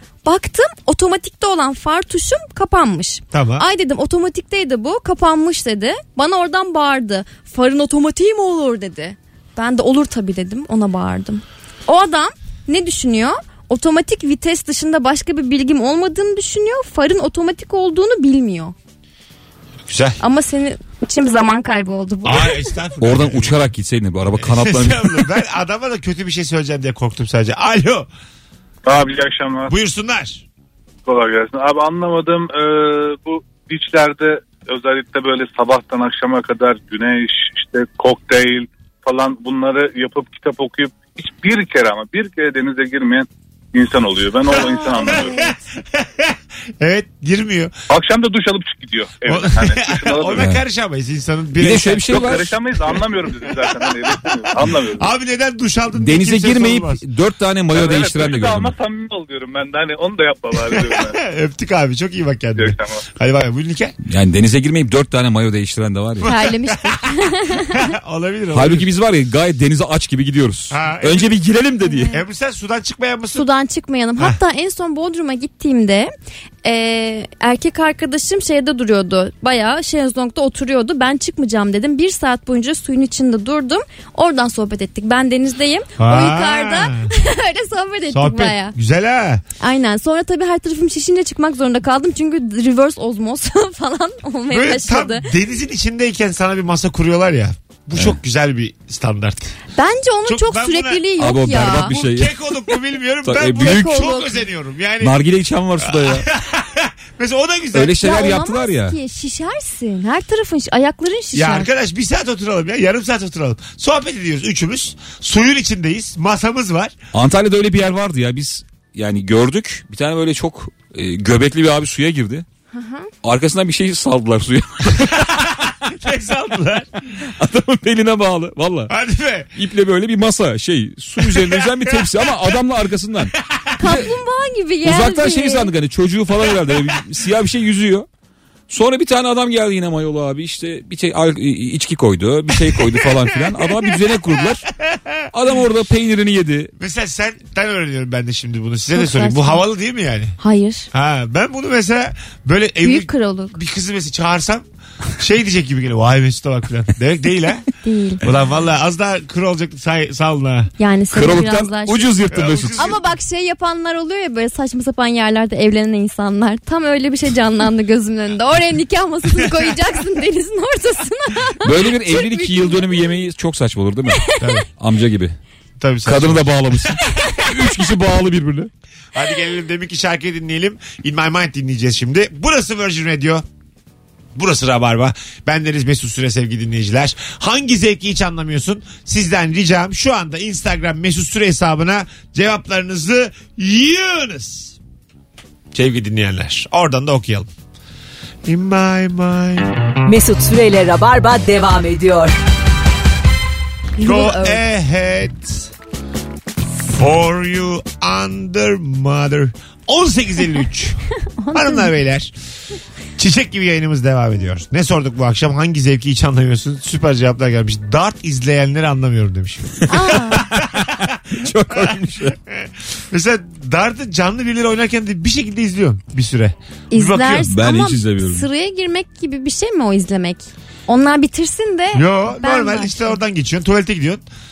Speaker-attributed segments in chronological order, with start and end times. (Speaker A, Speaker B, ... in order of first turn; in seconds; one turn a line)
Speaker A: 0.2-18.7
Speaker B: 3.3-3.6
Speaker B: 19.9-20.2
Speaker A: 20.2-22.6
Speaker B: 22.2-23.7
Speaker C: 23.0-25.3
Speaker B: 24.3-28.1
Speaker D: 28.8-29.8
Speaker B: 29.7-30.4
Speaker D: 31.1-45.5
Speaker B: 44.5-47.7
Speaker A: 44.8-45.5
Speaker D: 47.9-50.5
Speaker B: 49.2-57.0
Speaker C: 51.6-52.5
Speaker D: 52.1-55.1
Speaker C: 56.0-58.7
Speaker D: 57.7-61.2
Speaker B: 60.5-64.0
Speaker D: 62.5-63.0
Speaker C: 64.0-66.3
Speaker B: 66.2-68.9
Speaker A: 66.2-67.8
Speaker C: 68.5-72.1
Speaker B: 70.7-71.4
Speaker A: 71.8-72.2
Speaker B: 72.1-73.5
Speaker A: 73.3-76.1
Speaker A: 76.6-88.7
Speaker B: 86.0-87.1
Speaker B: 88.1-89.4
Speaker A: 89.6-95.3
Speaker B: 94.5-99.6
Speaker A: 99.8-101.9
Speaker B: 100.2-105.2
Speaker C: 101.2-102.3
Speaker C: 103.2-104.0
Speaker A: 103.6-104.4
Speaker C: 105.0-106.2
Speaker B: 105.8-108.0
Speaker C: 107.7-109.0
Speaker A: 108.0-111.7
Speaker B: 111.3-116.9
Speaker C: 117.1-122.4
Speaker A: 122.7-123.1
Speaker C: 123.2-125.5
Speaker B: 125.1-126.9
Speaker C: 127.2-128.9
Speaker B: 128.9-129.5
Speaker C: 129.5-134.1
Speaker B: 131.2-132.5
Speaker B: 133.5-133.9
Speaker A: 133.8-135.7
Speaker C: 134.8-138.1
Speaker C: 138.7-144.7
Speaker B: 142.6-145.2
Speaker C: 145.3-146.7
Speaker B: 146.8-150.4
Speaker A: 148.9-149.6
Speaker A: 150.4-150.9
Speaker B: 150.9-154.7
Speaker A: 152.8-153.6
Speaker B: 155.2-157.7
Speaker A: 157.8-158.2
Speaker B: 158.2-160.7
Speaker A: 160.8-162.2
Speaker C: 161.1-162.8
Speaker B: 162.3-163.1
Speaker A: 162.8-172.8
Speaker B: 169.4-169.8
Speaker C: 171.6-175.3
Speaker B: 174.4-174.7
Speaker B: 175.8-176.9
Speaker C: 176.0-178.7
Speaker B: 179.1-183.4
Speaker B: 184.3-194.8
Speaker B: 195.7-197.5
Speaker B: 198.4-199.8
Speaker E: 200.1-202.3
Speaker A: 204.0-204.6
Speaker B: 204.0-205.7
Speaker B: 206.9-212.3
Speaker A: 211.4-211.9
Speaker B: 213.2-227.5
Speaker A: 219.9-220.5
Speaker C: 220.3-222.3
Speaker A: 226.9-233.2
Speaker C: 227.5-228.5
Speaker B: 231.9-234.2